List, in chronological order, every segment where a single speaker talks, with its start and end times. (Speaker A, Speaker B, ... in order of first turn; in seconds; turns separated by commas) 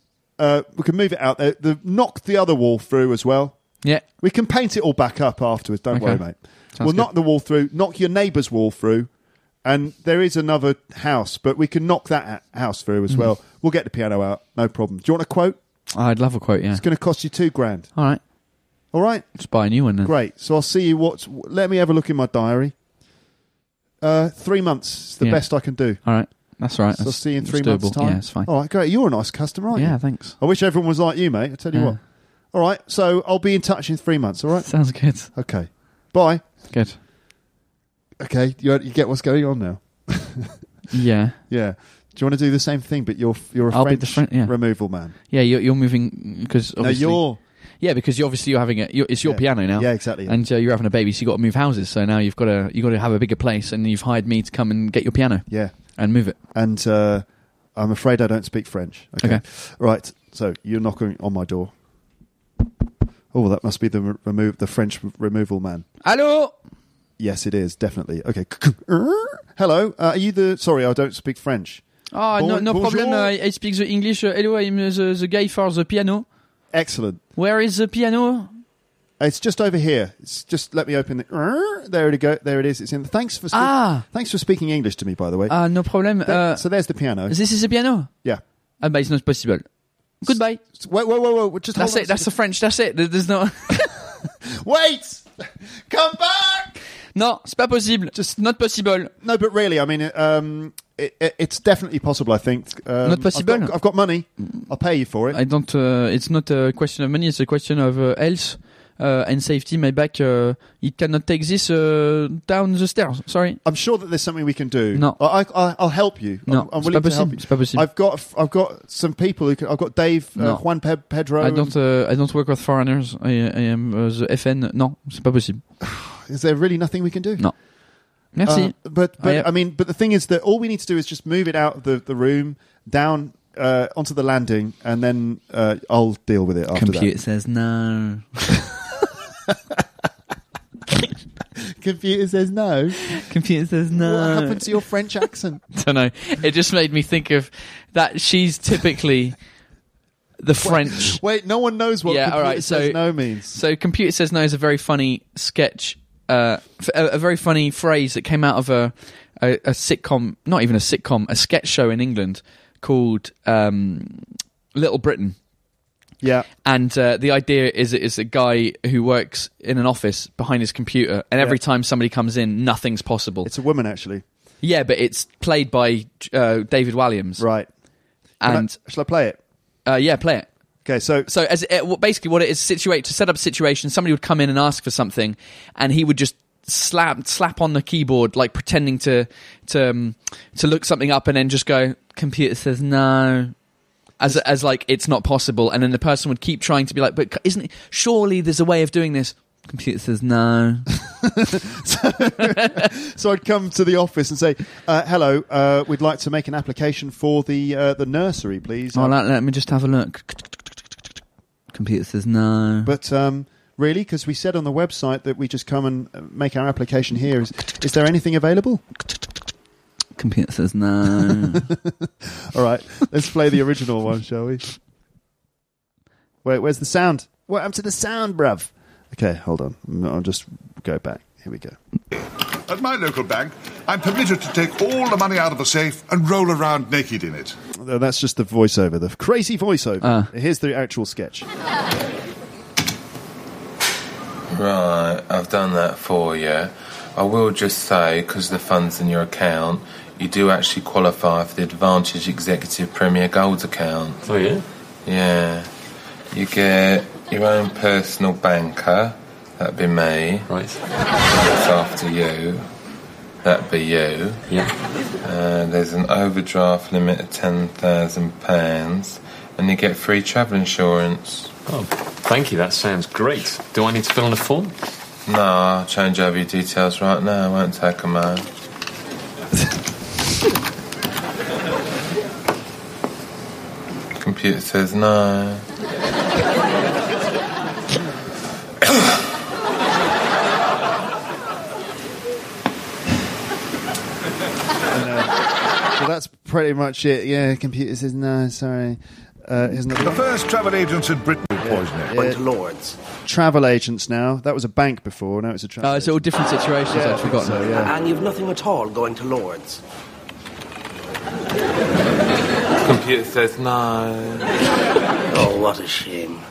Speaker A: 0.4-9.1, Speaker B: 5.9-6.2, Speaker B: 6.7-7.1, Speaker A: 9.6-15.6, Speaker B: 15.9-16.8, Speaker A: 16.7-17.9, Speaker A: 18.9-19.4, Speaker B: 19.4-20.1, Speaker A: 20.0-22.7, Speaker A: 24.0-26.0, Speaker B: 25.2-28.5, Speaker A: 27.0-32.0, Speaker B: 29.7-30.4, Speaker B: 31.7-32.0, Speaker A: 32.5-36.4, Speaker B: 34.6-35.3, Speaker B: 36.7-37.0, Speaker A: 38.2-40.6, Speaker B: 40.9-41.4, Speaker A: 41.5-45.1, Speaker B: 43.7-44.5, Speaker B: 45.2-47.3, Speaker A: 46.8-47.4, Speaker B: 47.8-56.4, Speaker A: 49.2-50.4, Speaker A: 55.5-55.8, Speaker A: 56.5-61.7, Speaker A: 63.3-65.8, Speaker B: 66.0-66.5, Speaker A: 67.2-71.8, Speaker B: 72.1-76.3, Speaker A: 72.3-73.3, Speaker A: 76.7-77.2, Speaker B: 77.3-78.5, Speaker A: 79.2-87.4, Speaker B: 83.5-84.0, Speaker B: 85.5-86.6, Speaker B: 87.3-88.1, Speaker B: 88.8-89.7, Speaker B: 90.2-90.6, Speaker A: 90.2-92.3, Speaker B: 91.8-93.9, Speaker A: 94.4-96.8, Speaker B: 97.1-99.1, Speaker A: 98.1-98.4, Speaker A: 99.1-105.4, Speaker B: 103.0-103.7, Speaker B: 105.3-113.6, Speaker A: 113.6-121.7, Speaker B: 114.9-115.2, Speaker B: 116.5-117.8, Speaker B: 120.3-120.6, Speaker B: 121.4-125.6, Speaker A: 125.8-127.4, Speaker B: 128.3-129.5, Speaker A: 128.4-137.1, Speaker B: 136.7-138.6, Speaker A: 141.6-143.0, Speaker B: 143.1-144.8, Speaker A: 143.9-145.6, Speaker B: 145.7-149.3, Speaker B: 150.4-151.2, Speaker A: 150.6-153.6, Speaker B: 152.0-165.4, Speaker A: 166.2-166.5, Speaker B: 166.6-173.5, Speaker A: 173.4-174.2, Speaker B: 174.6-177.4, Speaker A: 177.4-177.7, Speaker B: 178.4-178.7, Speaker A: 178.4-179.4, Speaker B: 179.8-180.5, Speaker A: 180.8-181.3, Speaker B: 181.3-193.5, Speaker B: 194.2-200.9, Speaker A: 201.0-209.1, Speaker B: 202.4-202.8, Speaker B: 208.9-210.6, Speaker B: 211.7-212.9, Speaker A: 212.8-218.8, Speaker B: 220.2-221.7, Speaker A: 221.5-224.6, Speaker A: 226.4-231.8, Speaker C: 232.7-237.5, Speaker A: 237.8-241.5, Speaker B: 240.0-240.3, Speaker D: 244.5-254.2, Speaker E: 254.2-254.6, Speaker D: 255.1-255.7, Speaker D: 256.3-260.5, Speaker E: 260.5-260.8, Speaker D: 261.2-262.6, Speaker D: 263.4-264.4, Speaker E: 264.5-264.7, Speaker D: 265.2-271.5, Speaker E: 271.6-274.7, Speaker D: 275.2-278.5, Speaker D: 284.2-285.6, Speaker A: 294.9-295.4, Speaker A: 295.9-300.2, Speaker C: 299.9-302.1, Speaker A: 301.6-302.4, Speaker F: 302.1-303.0, Speaker A: 303.2-306.3, Speaker B: 305.8-307.8, Speaker A: 306.9-307.9, Speaker F: 307.8-309.8, Speaker D: 312.8-314.5, Speaker F: 315.3-316.4